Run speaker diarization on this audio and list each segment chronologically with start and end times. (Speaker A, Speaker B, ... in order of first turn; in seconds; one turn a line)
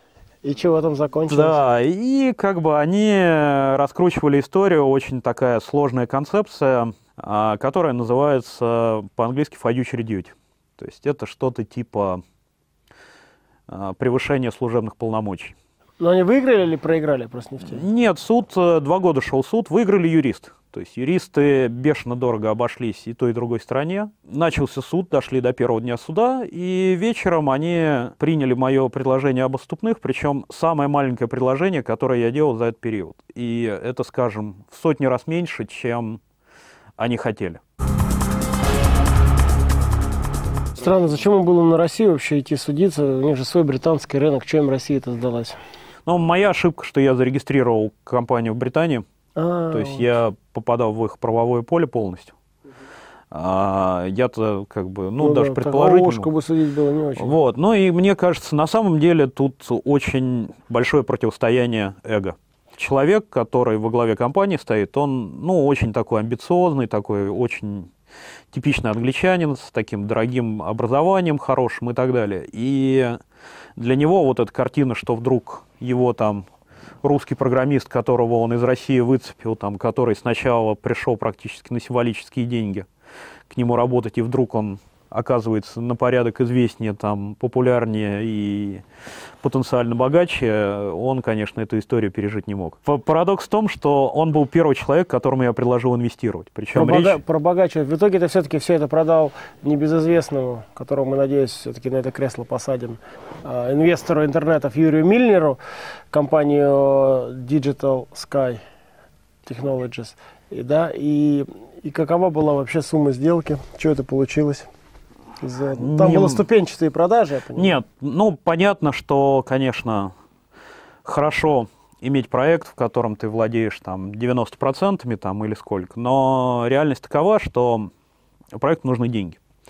Speaker A: 0.4-1.6
Speaker B: 1.3-12.2
Speaker B: 13.7-15.6
Speaker A: 16.0-17.8
Speaker B: 17.6-36.2
Speaker B: 37.0-37.6
Speaker A: 40.8-45.6
Speaker B: 46.1-49.0
Speaker A: 49.4-50.0
Speaker B: 49.7-52.3
Speaker B: 53.3-56.3
Speaker A: 55.2-57.3
Speaker B: 57.2-67.9
Speaker B: 68.5-73.2
Speaker B: 73.8-76.4
Speaker B: 77.0-82.9
Speaker B: 83.5-88.8
Speaker B: 89.4-97.2
Speaker A: 96.7-105.6
Speaker A: 106.1-108.6
Speaker A: 109.4-114.7
Speaker A: 115.4-117.8
Speaker B: 115.8-116.5
Speaker B: 117.5-120.1
Speaker B: 121.0-127.9
Speaker B: 128.5-129.4